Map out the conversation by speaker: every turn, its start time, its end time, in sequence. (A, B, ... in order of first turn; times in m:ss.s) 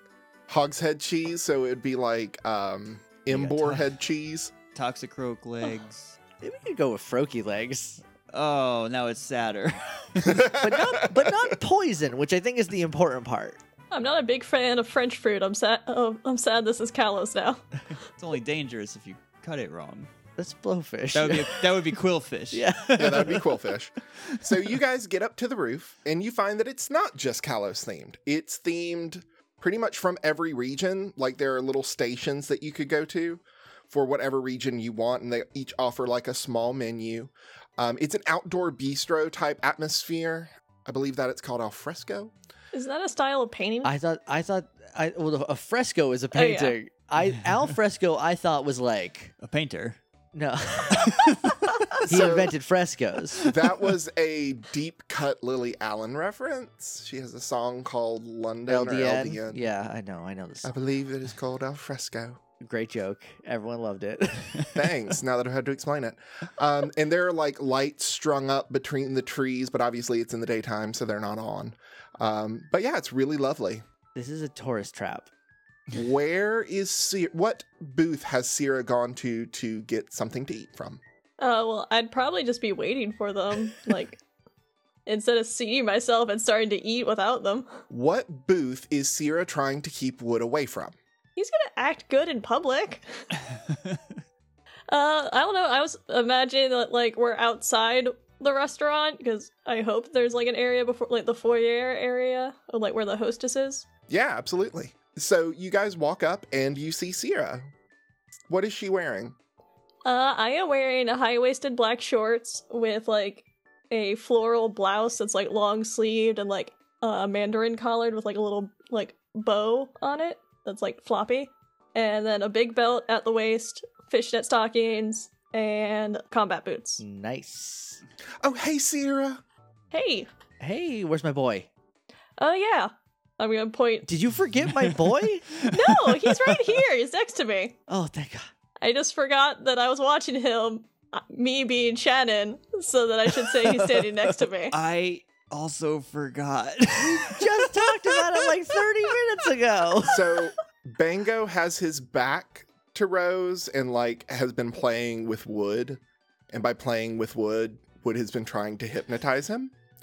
0:00.5-0:04.5 A
0:03.3-0:04.0 B
0:04.7-0:06.2 B
0:06.4-0:08.0 C
0:08.3-0:10.5 B
0:10.2-0:11.4 A
0:10.5-0:13.6 C
0:13.9-0:17.7 D
0:18.2-0:20.1 B
0:20.4-0:22.0 C
0:21.1-0:23.5 B
0:22.5-0:23.4 C
0:23.0-0:42.3 A
0:42.7-0:43.9 D
0:43.8-0:49.3 C
0:46.3-0:46.8 D
0:49.4-0:50.0 B
0:50.3-0:51.3 C
0:50.9-0:51.8 B
0:52.0-0:52.5 A
0:52.1-0:53.4 C
0:53.4-0:53.8 B
0:53.4-0:59.6 A
0:58.7-1:00.8 C
1:00.6-1:02.4 A
1:02.6-1:04.9 C
1:04.7-1:13.8 A
1:14.2-1:15.3 C
1:15.9-1:21.0 A
1:21.4-1:24.2 D
1:25.1-1:27.7 D
1:27.9-1:31.0 A
1:31.4-1:33.2 D
1:33.7-1:34.0 B
1:34.9-1:43.8 D
1:44.1-1:47.7 A
1:48.5-1:49.4 A
1:50.0-2:07.0 D
2:07.0-2:08.0 C
2:08.4-2:09.4 A
2:09.9-2:10.3 D
2:10.6-2:11.7 C
2:12.4-2:14.1 D
2:14.1-2:15.5 C
2:15.5-2:16.6 B
2:15.7-2:17.8 D
2:17.9-2:18.5 C
2:18.8-2:24.8 D
2:23.4-2:24.4 C
2:24.7-2:28.2 B
2:27.0-2:30.2 C
2:30.0-2:39.7 A